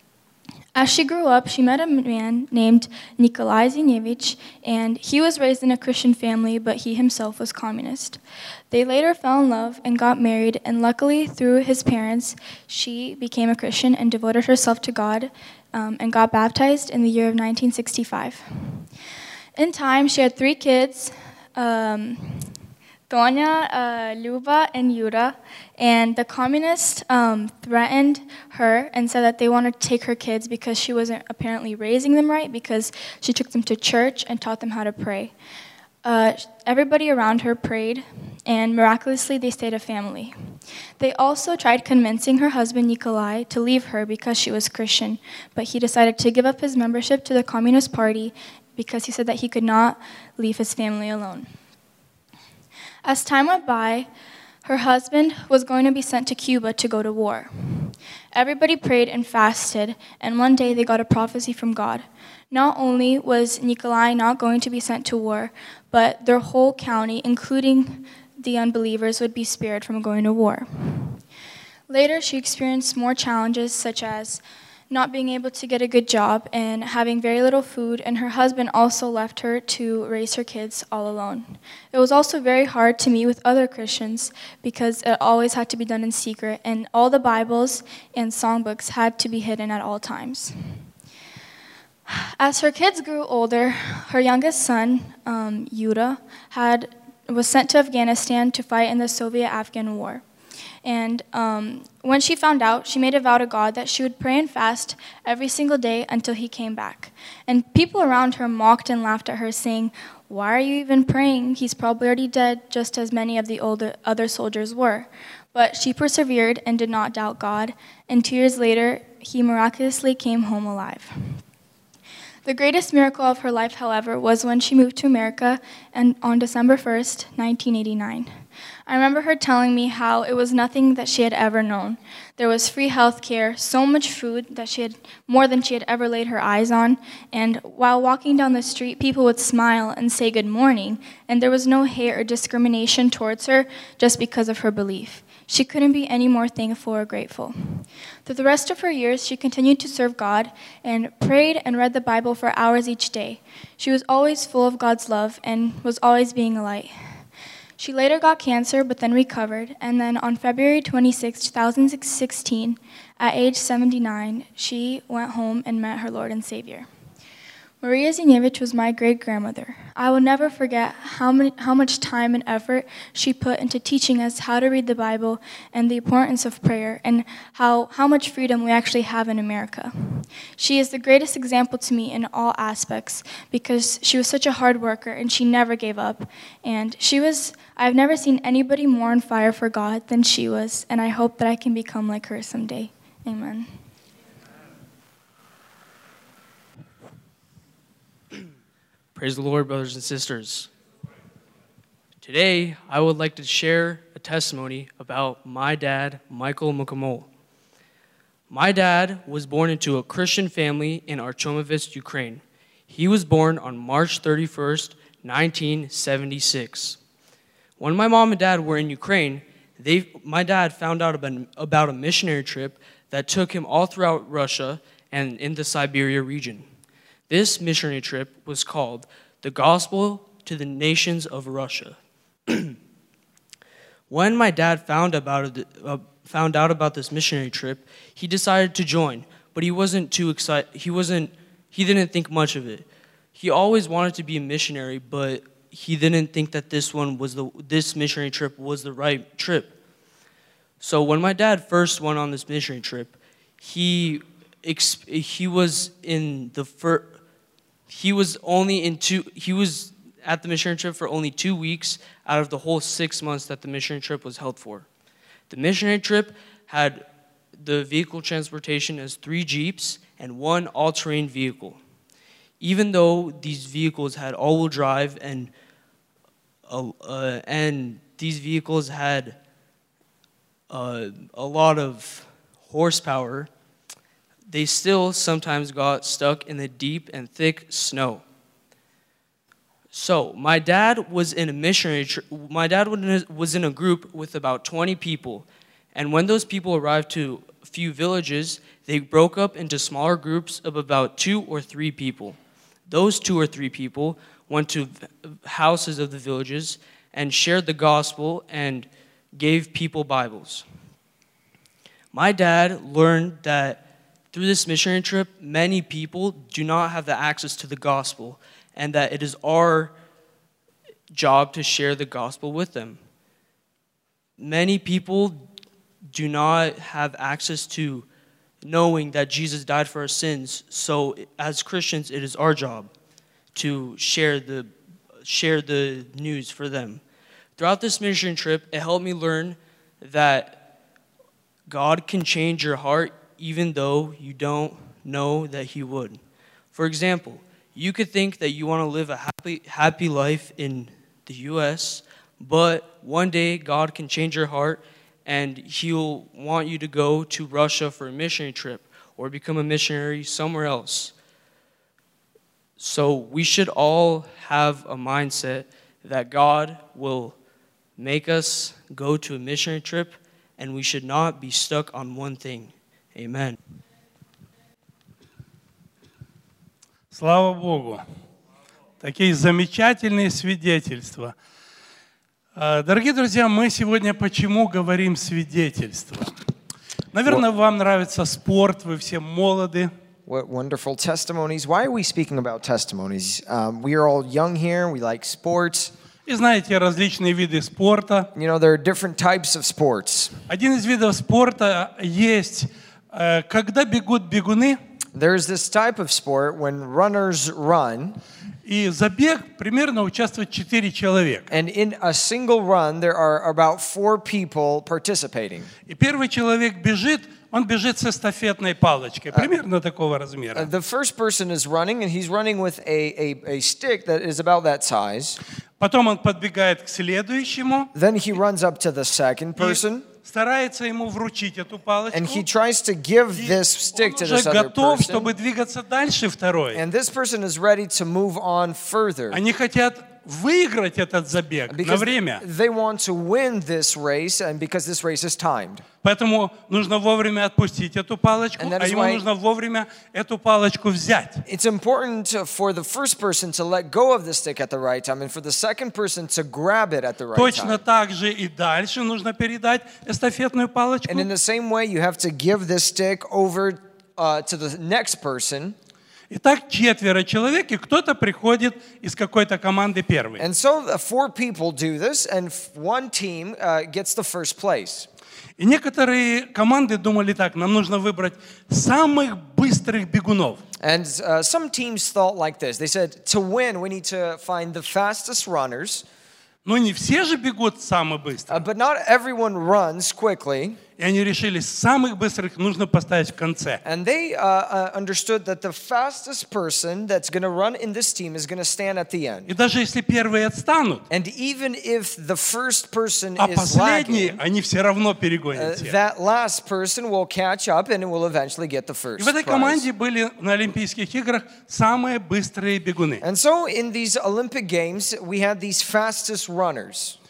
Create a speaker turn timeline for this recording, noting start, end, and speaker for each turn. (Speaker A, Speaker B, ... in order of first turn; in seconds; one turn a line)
Speaker A: 0.8-18.8
Speaker A: 19.6-22.4
Speaker A: 23.1-35.3
Speaker A: 36.0-40.3
Speaker A: 41.0-51.5
Speaker A: 53.0-54.1
Speaker A: 54.6-71.2
Speaker A: 71.9-90.5
Speaker A: 92.1-100.2
Speaker A: 100.8-121.1
Speaker A: 122.4-128.3
Speaker A: 128.9-156.9
Speaker A: 157.8-166.9
Speaker A: 167.8-193.7
Speaker B: 199.1-200.7
Speaker B: 202.2-207.3
Speaker B: 208.5-217.0
Speaker B: 217.8-226.7
Speaker B: 227.3-232.0
Speaker B: 232.5-232.8
Speaker B: 234.1-249.7
Speaker B: 250.8-257.1
Speaker B: 257.9-264.9
Speaker B: 265.5-267.0
Speaker B: 267.6-271.8
Speaker B: 272.6-275.5
Speaker B: 276.7-279.4
Speaker B: 280.7-283.5
Speaker B: 284.5-288.2
Speaker B: 289.9-310.6
Speaker B: 312.1-313.8
Speaker B: 314.3-319.9
Speaker B: 321.1-323.0
Speaker B: 324.4-325.4
Speaker B: 326.1-328.1
Speaker B: 328.6-332.9
Speaker B: 333.5-334.7
Speaker B: 335.2-337.0
Speaker B: 337.6-340.6
Speaker B: 341.7-346.2
Speaker B: 346.7-361.1
Speaker B: 362.8-367.3
Speaker B: 368.0-373.6
Speaker C: 377.1-378.0
Speaker C: 379.0-381.3
Speaker C: 382.6-386.3
Speaker C: 387.1-389.9
Speaker D: 390.2-395.9
Speaker C: 396.2-398.3
Speaker D: 398.3-400.3
Speaker C: 400.5-404.8
Speaker D: 405.1-408.2
Speaker C: 408.6-411.4
Speaker D: 411.5-415.7
Speaker C: 415.9-420.7
Speaker D: 420.5-425.4
Speaker C: 425.8-427.9
Speaker D: 427.9-430.1
Speaker C: 429.6-432.4
Speaker D: 432.1-435.3
Speaker C: 433.4-436.8
Speaker D: 436.7-439.4
Speaker C: 439.3-442.4
Speaker D: 441.7-445.8
Speaker C: 446.0-451.4
Speaker D: 448.6-449.2
Speaker D: 451.5-457.8
Speaker C: 457.3-461.3
Speaker D: 461.1-465.8
Speaker C: 466.3-470.4
Speaker D: 470.4-475.1
Speaker C: 475.6-480.6
Speaker D: 480.8-486.0
Speaker C: 486.6-488.6
Speaker D: 488.5-490.8
Speaker C: 491.0-493.8
Speaker D: 493.8-499.5
Speaker C: 499.5-501.0
Speaker D: 501.1-504.4
Speaker C: 503.4-505.9
Speaker D: 505.5-509.8
Speaker C: 509.2-513.2
Speaker D: 513.2-517.2